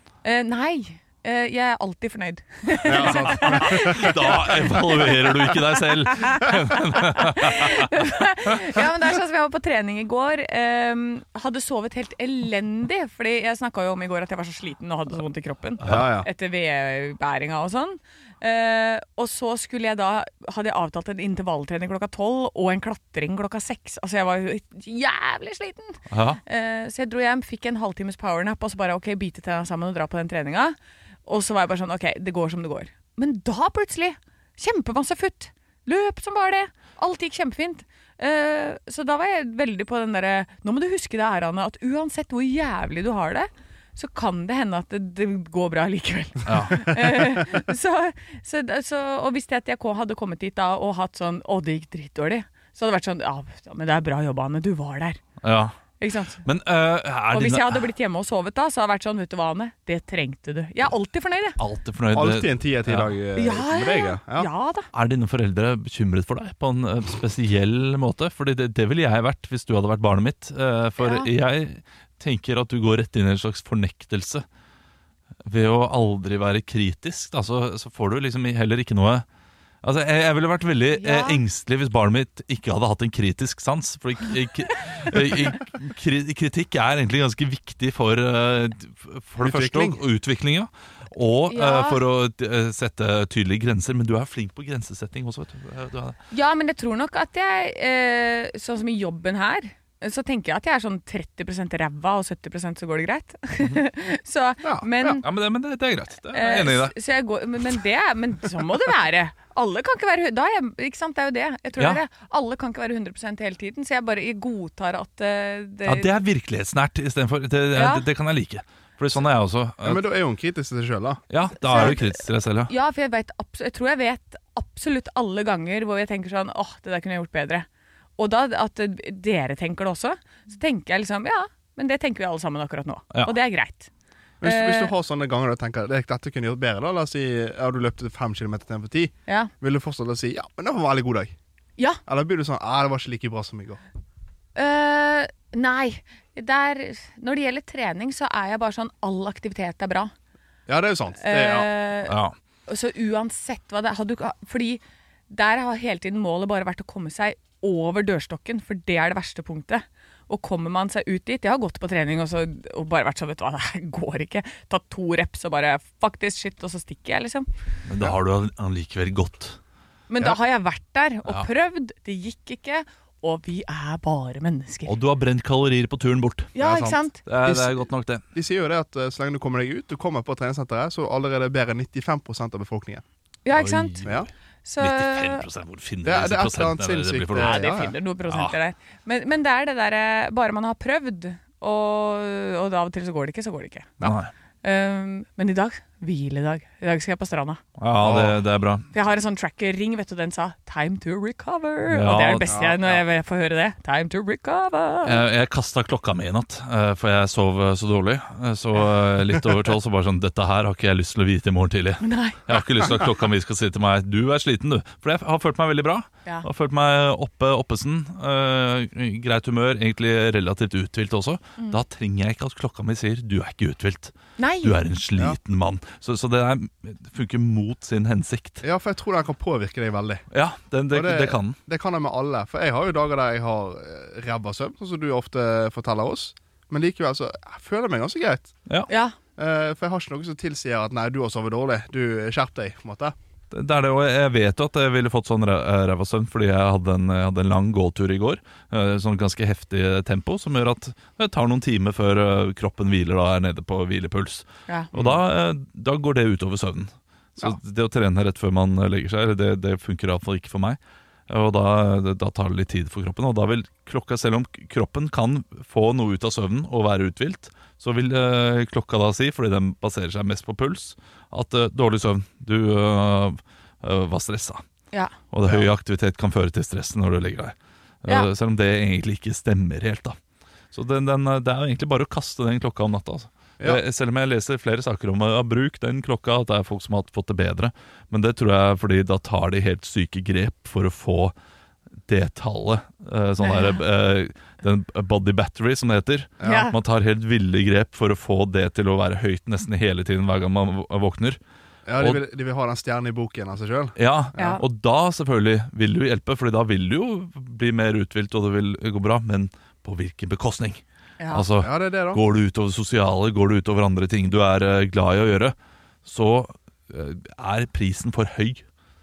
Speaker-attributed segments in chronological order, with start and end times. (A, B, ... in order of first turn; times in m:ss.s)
0:00.2-0:55.2 A
0:02.8-0:04.5 B
0:03.0-0:08.8 C
0:15.8-0:16.3 B
0:15.8-0:16.1 C
0:26.1-0:26.4 C
0:46.5-0:47.0 C
0:55.4-0:55.8 C
0:56.0-0:56.4 A
0:56.4-0:57.9 C
0:57.3-1:01.6 A
1:01.6-1:03.1 C
1:02.1-1:04.5 B
1:03.4-1:04.9 A
1:04.9-1:14.4 C
1:11.0-1:11.3 A
1:15.4-1:19.2 C
1:19.8-1:36.2 C
1:21.0-1:21.4 A
1:29.4-1:30.0 B
1:31.5-1:32.0 A
1:36.3-1:45.2 A
1:44.6-1:45.2 B
1:45.2-1:47.0 C
1:46.3-1:56.1 A
1:51.8-1:52.0 C
1:55.9-2:00.0 C
1:57.7-1:58.0 A
1:59.8-2:01.2 B
2:01.3-2:02.7 C
2:01.7-2:02.1 A
2:02.7-2:07.7 A
2:08.2-2:13.9 A
2:14.4-2:21.3 B
2:14.4-2:14.9 A
2:22.1-2:23.8 B
2:24.6-2:30.1 A
2:30.7-2:31.7 B
2:31.2-2:47.5 A
2:32.0-2:32.3 C
2:47.9-2:49.6 C
2:50.1-2:54.9 A
2:54.8-2:56.5 C
2:56.6-2:57.2 A
2:56.6-2:57.8 B
2:57.3-2:58.2 C
2:58.3-3:03.0 B
3:03.4-3:04.1 A
3:03.5-3:08.6 C
3:04.0-3:04.3 B
3:04.6-3:05.5 A
3:06.0-3:07.9 B
3:07.4-3:13.9 A
3:14.0-3:14.3 C
3:14.6-3:17.6 A
3:17.8-3:18.9 C
3:18.0-3:18.4 B
3:18.9-3:25.2 A
3:21.9-3:22.5 C
3:22.5-3:23.0 B
3:25.0-3:48.6 C
3:32.0-3:32.4 A
3:44.4-3:44.8 A
3:48.6-3:50.2 B
3:50.3-3:51.6 C
3:50.9-3:58.5 B
3:58.9-3:59.2 A
3:59.4-4:03.2 B
4:03.5-4:34.6 C
4:14.9-4:15.2 B
4:35.3-4:40.2 C
4:40.7-4:51.3 C
4:52.1-5:01.4 C
4:53.4-4:53.8 A
4:56.4-4:56.7 B
4:56.4-4:56.7 A
5:01.9-5:04.6 B
5:04.0-5:18.6 C
5:04.4-5:04.6 A
5:11.2-5:11.5 A
5:11.6-5:12.2 B